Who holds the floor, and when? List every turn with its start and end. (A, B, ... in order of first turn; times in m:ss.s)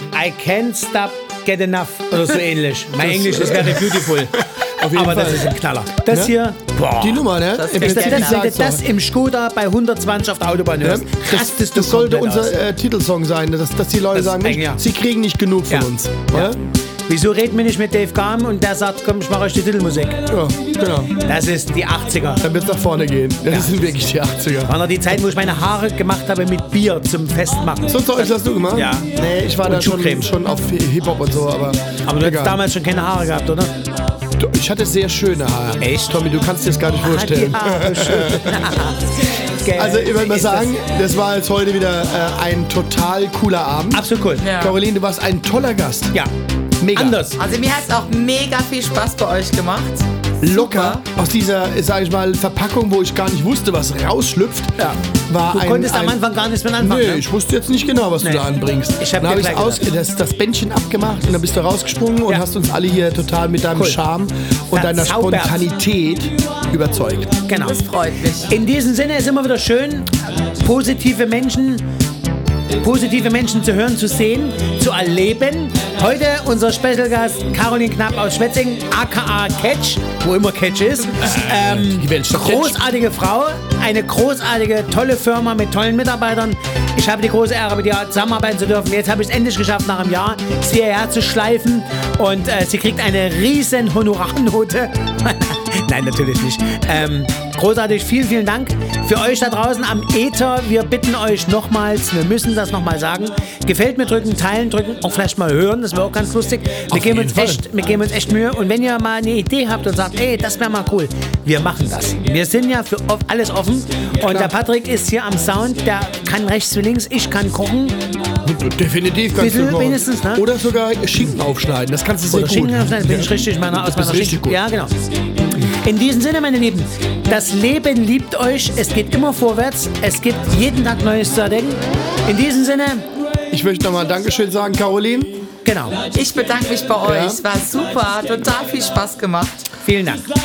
0:00.1-0:12.6 A
0:03.0-0:05.5 B
0:06.1-0:06.4 B
0:07.0-0:08.8 B
0:07.6-0:08.5 C
0:10.8-0:16.6 B
0:14.1-0:14.8 A
0:15.7-0:20.2 A
0:20.3-0:21.2 B
0:21.1-0:22.5 A
0:22.4-0:24.8 B
0:23.5-0:23.9 A
0:24.6-0:30.3 A
0:27.9-0:32.6 B
0:32.0-0:33.8 A
0:34.4-0:38.6 B
0:35.8-0:36.2 A
0:37.0-0:40.8 A
0:39.8-0:46.2 B
0:43.9-0:44.6 A
0:44.4-0:44.8 C
0:46.8-0:47.3 B
0:46.9-0:47.4 A
0:47.4-0:51.0 C
0:50.4-0:56.2 B
0:54.8-0:57.3 A
0:56.8-1:07.4 B
0:58.2-0:59.9 A
1:03.7-1:04.0 A
1:04.7-1:05.6 A
1:07.5-1:07.8 A
1:07.6-1:08.6 C
1:08.4-1:11.9 A
1:12.8-1:58.0 A
1:21.2-1:22.8 B
1:46.9-1:47.6 B
1:54.2-1:54.5 B
1:58.4-2:04.6 B
1:59.3-2:00.5 A
2:02.3-2:13.1 A
2:13.5-2:15.4 B
2:15.6-2:16.0 A
2:16.1-2:19.7 C
2:17.1-2:17.4 B
2:19.8-2:20.3 A